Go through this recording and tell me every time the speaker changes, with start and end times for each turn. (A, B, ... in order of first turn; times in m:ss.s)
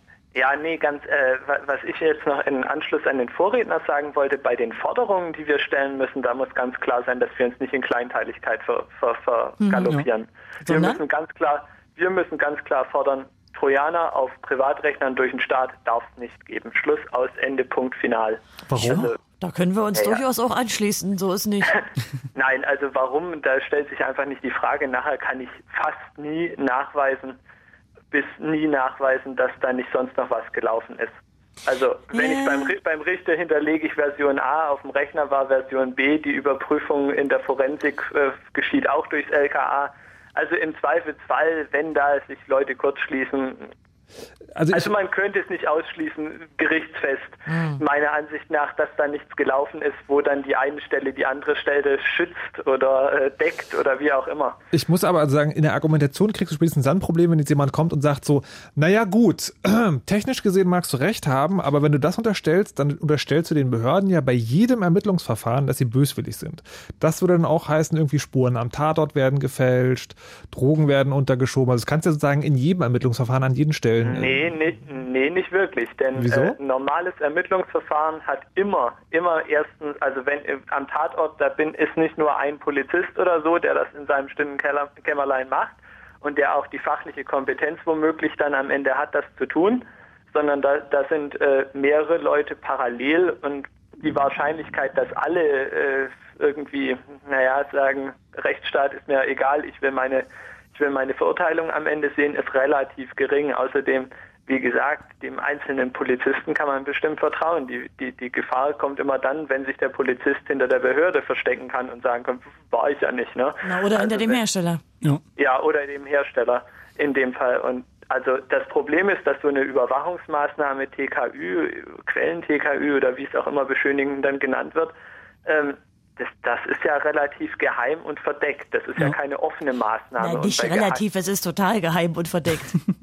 0:00.4-0:19.2 A
0:09.6-0:09.9 B
0:10.6-0:11.0 B
0:18.7-0:19.1 C
0:18.8-0:21.8 B
0:19.9-0:20.2 A
0:21.7-0:27.4 A
0:28.1-0:43.7 A
0:32.1-0:32.7 B
0:44.6-0:44.9 C
0:44.7-0:54.6 A
0:47.5-0:47.8 B
0:54.7-1:14.5 C
1:14.0-1:54.4 A
1:16.2-1:16.6 C
1:53.6-1:54.8 B
1:55.4-2:04.9 A
2:05.5-2:11.0 A
2:10.2-2:12.8 B